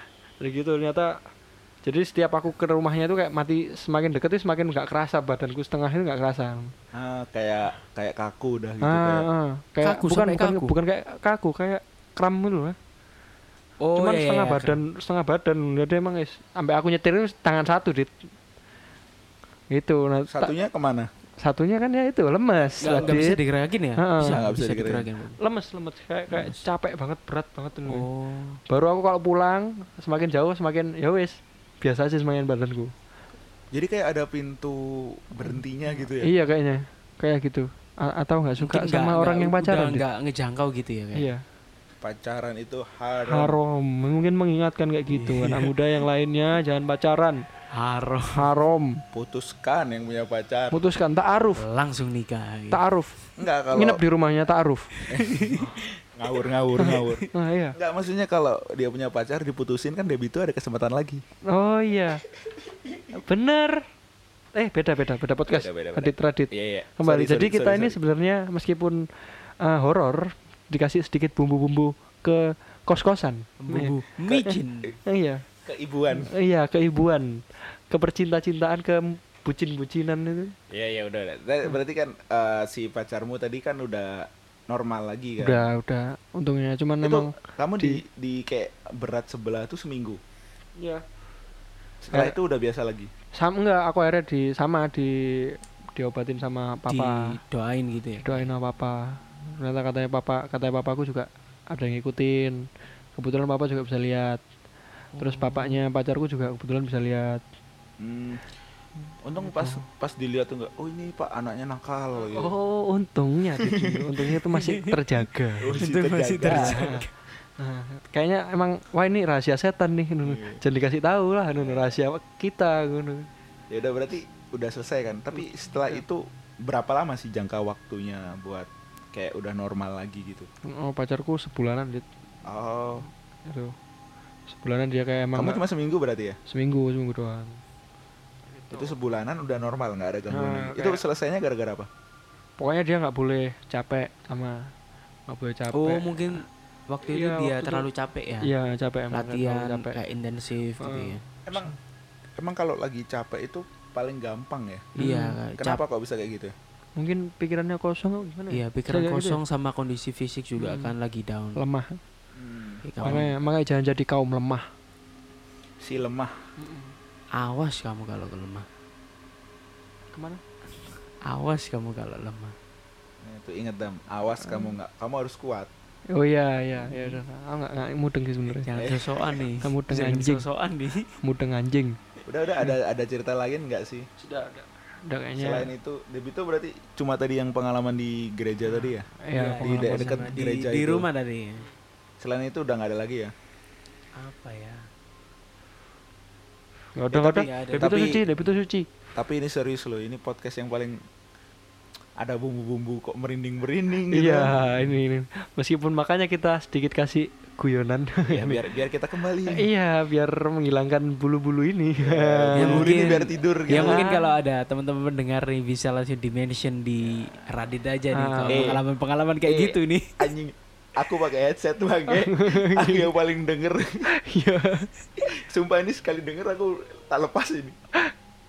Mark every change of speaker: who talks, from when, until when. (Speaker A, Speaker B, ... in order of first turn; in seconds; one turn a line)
Speaker A: 0.4-1.2
Speaker A: 1.9-6.7
Speaker B: 6.9-9.3
Speaker A: 8.8-12.8
Speaker C: 9.8-10.7
Speaker C: 13.8-14.8
Speaker A: 14.0-18.1
Speaker A: 19.7-20.5
Speaker B: 20.3-21.1
Speaker A: 21.4-23.4
Speaker C: 22.8-25.4
Speaker B: 22.9-23.2
Speaker A: 24.0-24.4
Speaker B: 24.3-25.1
Speaker A: 25.4-28.1
Speaker C: 26.3-26.6
Speaker C: 27.9-28.6
Speaker A: 28.7-32.9
Speaker B: 33.7-36.3
Speaker A: 36.2-40.0
Speaker C: 38.6-41.3
Speaker A: 41.1-41.4
Speaker B: 42.0-43.6
Speaker A: 43.3-47.4
Speaker C: 45.1-45.7
Speaker C: 47.7-48.4
Speaker A: 48.4-49.0
Speaker B: 49.1-50.8
Speaker A: 50.7-51.6
Speaker C: 51.6-52.8
Speaker A: 52.7-53.2
Speaker B: 53.4-54.0
Speaker A: 53.7-55.0
Speaker B: 55.1-61.2
Speaker C: 55.1-55.7
Speaker A: 56.8-57.8
Speaker A: 61.5-62.2
Speaker A: 63.1-63.8
Speaker A: 64.5-69.1
Speaker B: 65.5-68.0
Speaker A: 69.6-74.6
Speaker C: 73.6-75.0
Speaker A: 75.1-75.4
Speaker B: 75.7-76.3
Speaker A: 76.1-80.5
Speaker B: 80.7-85.7
Speaker A: 85.4-88.0
Speaker B: 87.0-90.2
Speaker A: 90.8-91.0
Speaker B: 92.0-93.1
Speaker A: 93.3-97.1
Speaker C: 96.9-98.5
Speaker A: 98.2-104.4
Speaker A: 105.2-107.4
Speaker C: 105.4-105.8
Speaker B: 108.0-108.5
Speaker B: 109.2-112.5
Speaker A: 109.4-109.8
Speaker A: 112.3-115.8
Speaker B: 113.6-114.2
Speaker C: 114.5-115.0
Speaker B: 115.6-116.8
Speaker C: 115.8-117.1
Speaker A: 116.5-117.0
Speaker A: 117.6-123.3
Speaker B: 120.2-120.6
Speaker B: 121.6-122.0
Speaker B: 123.7-130.5
Speaker A: 130.7-132.1
Speaker B: 132.4-133.1
Speaker A: 133.5-133.8
Speaker A: 134.5-135.6
Speaker B: 135.3-136.4
Speaker A: 136.5-137.6
Speaker A: 138.5-139.0
Speaker B: 138.7-141.9
Speaker A: 140.3-141.0
Speaker A: 142.6-144.7
Speaker A: 145.3-146.4
Speaker C: 145.7-148.5
Speaker A: 147.1-147.9
Speaker A: 148.4-150.0
Speaker C: 149.1-151.2
Speaker A: 150.8-151.8
Speaker B: 151.5-151.8
Speaker B: 152.4-154.9
Speaker C: 155.0-155.8
Speaker A: 155.0-155.4
Speaker B: 155.6-156.5
Speaker A: 157.0-159.4
Speaker C: 158.5-161.6
Speaker A: 160.6-160.9
Speaker A: 161.6-162.0
Speaker B: 162.3-163.3
Speaker C: 162.8-163.3
Speaker A: 163.0-164.7
Speaker B: 165.8-166.4
Speaker A: 166.6-166.9
Speaker C: 167.4-168.7
Speaker A: 170.1-170.4
Speaker C: 171.3-172.6
Speaker B: 173.2-175.7
Speaker A: 176.1-178.7
Speaker C: 176.8-177.2
Speaker C: 178.6-181.1
Speaker B: 178.7-179.5
Speaker A: 179.6-180.4
Speaker A: 181.2-181.9
Speaker B: 182.3-184.1
Speaker A: 184.2-185.7
Speaker B: 185.4-189.1
Speaker A: 189.2-190.5
Speaker C: 189.3-191.7
Speaker B: 189.6-191.1
Speaker B: 192.2-193.3
Speaker C: 194.2-194.9
Speaker A: 197.0-198.9
Speaker C: 197.1-198.5
Speaker B: 197.8-198.2
Speaker B: 199.2-201.0
Speaker B: 202.2-204.5
Speaker A: 204.1-208.6
Speaker B: 208.3-209.7
Speaker A: 209.5-212.9
Speaker B: 212.0-214.0
Speaker C: 212.5-220.2
Speaker A: 213.7-214.2
Speaker A: 218.2-218.8
Speaker B: 218.5-218.8
Speaker B: 219.5-224.1
Speaker A: 222.1-223.1
Speaker A: 224.2-224.9
Speaker B: 225.2-227.8